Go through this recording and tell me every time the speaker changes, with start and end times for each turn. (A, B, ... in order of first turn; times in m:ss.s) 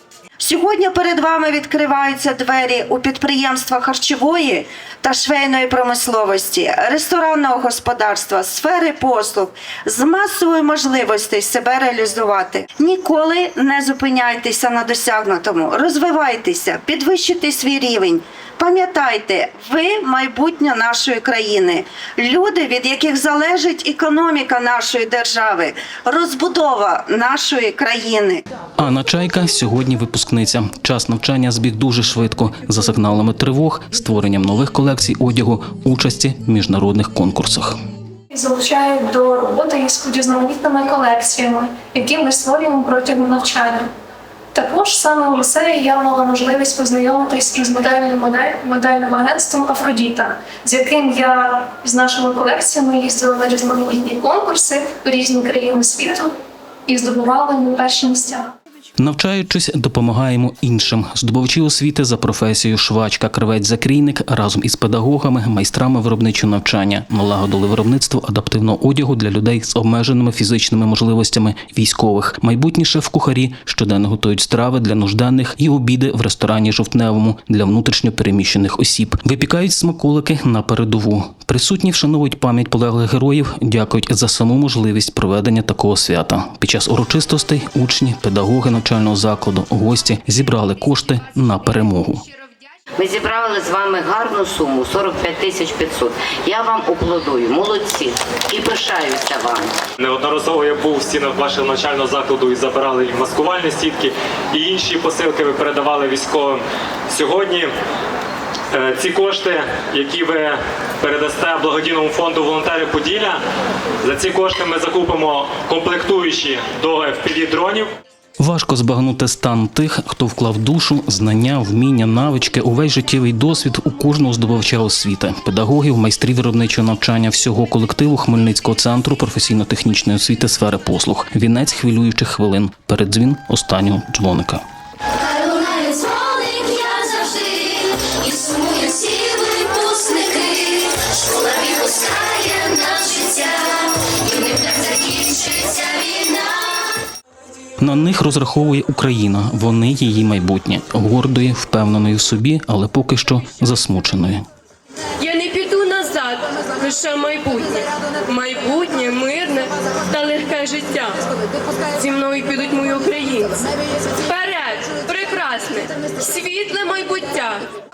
0:00.4-0:28.4 A
0:28.8-0:37.8 B
0:38.3-0:43.9 C
0:44.5-0:56.3 C
0:56.9-0:58.5 C
0:59.0-1:32.2 B
1:33.0-1:39.7 D
1:40.0-1:47.7 E
1:48.7-1:53.4 E
1:54.0-1:57.9 E
1:58.4-2:14.6 B
2:16.8-2:17.5 D
2:19.6-2:20.5 D
2:21.4-2:23.2 D
2:25.4-2:26.1 D
2:27.8-2:34.4 B
2:35.2-2:41.2 F
2:41.9-2:43.7 F
2:44.2-2:47.6 F